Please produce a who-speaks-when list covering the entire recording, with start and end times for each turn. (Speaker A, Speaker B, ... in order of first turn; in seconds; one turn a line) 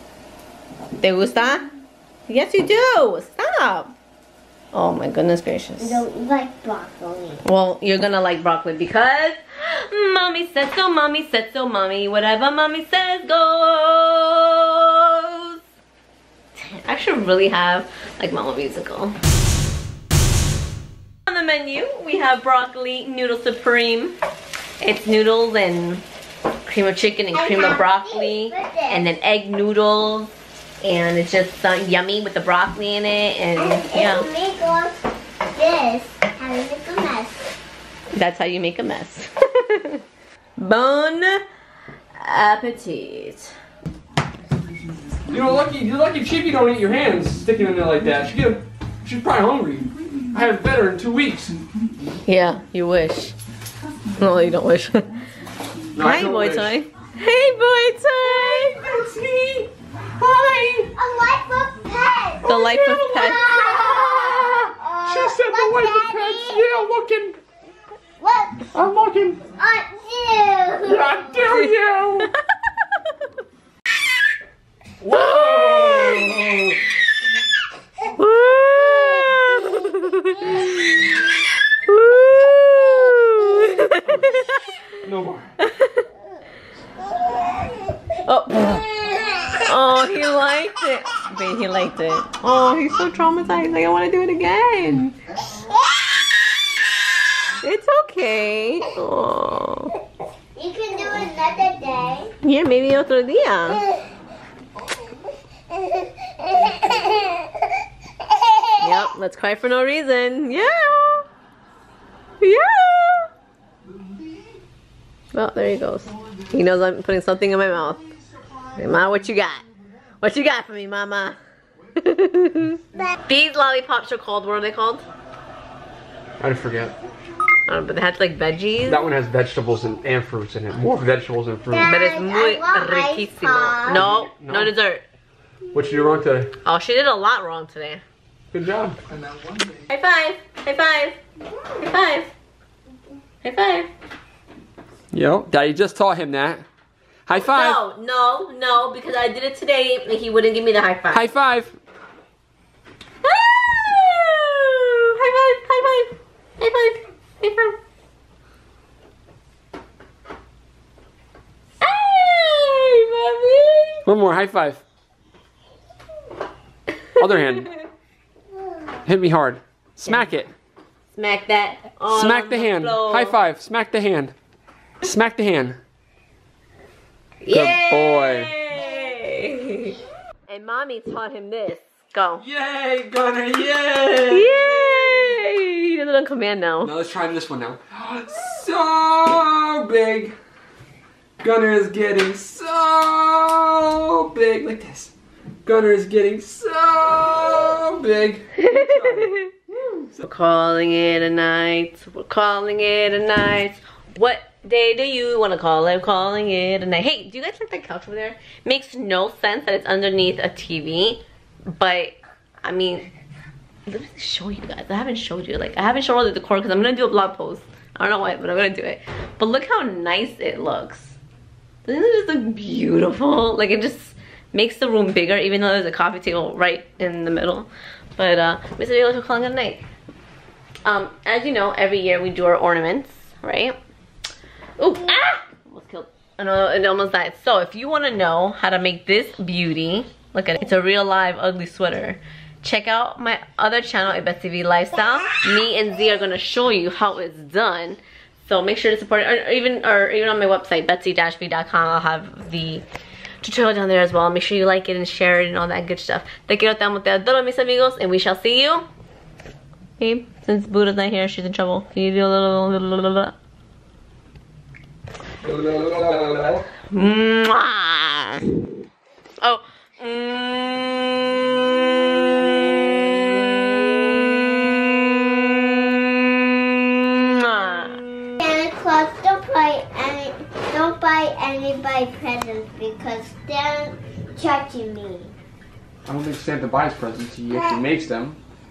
Speaker A: 1.0-1.7
Speaker A: 2.3-3.9
Speaker A: 4.7-6.0
Speaker B: 5.8-7.4
Speaker A: 7.4-15.6
Speaker A: 16.6-19.2
Speaker A: 21.3-24.2
Speaker A: 24.8-26.0
Speaker A: 26.7-34.3
Speaker B: 27.3-29.1
Speaker B: 33.6-37.5
Speaker A: 38.1-40.0
Speaker A: 40.6-41.4
Speaker A: 42.1-43.5
Speaker C: 45.3-51.6
Speaker A: 52.2-53.4
Speaker A: 54.2-55.1
Speaker C: 56.0-56.7
Speaker A: 56.0-58.8
Speaker C: 58.3-60.9
Speaker B: 60.8-62.6
Speaker A: 62.5-63.5
Speaker C: 62.6-67.4
Speaker B: 63.1-66.8
Speaker B: 68.2-68.7
Speaker C: 68.8-69.4
Speaker B: 69.5-71.6
Speaker C: 70.8-72.3
Speaker C: 75.0-76.8
Speaker A: 75.1-75.9
Speaker A: 78.2-80.8
Speaker A: 81.8-84.5
Speaker C: 85.0-85.5
Speaker A: 85.6-86.0
Speaker A: 88.2-88.8
Speaker A: 89.6-95.2
Speaker A: 97.6-100.0
Speaker B: 100.6-102.3
Speaker A: 102.4-103.8
Speaker B: 105.8-107.6
Speaker B: 108.3-108.7
Speaker A: 108.8-111.3
Speaker A: 112.4-113.3
Speaker A: 115.3-118.0
Speaker A: 118.8-119.7
Speaker A: 120.2-121.4
Speaker A: 122.0-125.0
Speaker C: 126.4-127.0
Speaker A: 127.7-129.1
Speaker C: 128.8-131.9
Speaker B: 131.7-134.1
Speaker A: 131.8-135.0
Speaker C: 133.9-134.7
Speaker C: 135.7-136.5
Speaker A: 136.6-138.0
Speaker C: 138.5-139.0
Speaker A: 139.9-141.2
Speaker A: 141.8-142.3
Speaker A: 143.4-143.9
Speaker C: 145.1-146.6
Speaker C: 147.3-147.8
Speaker A: 147.3-151.3
Speaker C: 151.1-151.8
Speaker A: 153.2-157.8
Speaker A: 161.8-164.0
Speaker C: 164.1-164.8
Speaker C: 167.2-167.7
Speaker C: 169.0-170.5
Speaker A: 171.1-173.4
Speaker C: 172.1-174.3
Speaker C: 175.0-175.8
Speaker A: 177.4-182.4
Speaker C: 177.5-178.5
Speaker C: 182.4-185.4
Speaker A: 184.3-186.9
Speaker C: 186.8-190.3
Speaker C: 191.4-195.1
Speaker C: 195.7-200.2
Speaker A: 198.6-199.5
Speaker A: 200.2-213.1
Speaker A: 213.9-221.2
Speaker A: 221.9-229.8
Speaker A: 230.8-233.8
Speaker A: 234.8-252.8
Speaker A: 253.4-258.9
Speaker A: 260.0-263.3
Speaker C: 265.4-266.6
Speaker A: 266.9-268.5
Speaker A: 269.4-278.4
Speaker B: 278.4-285.3
Speaker C: 286.1-288.4
Speaker B: 287.5-287.9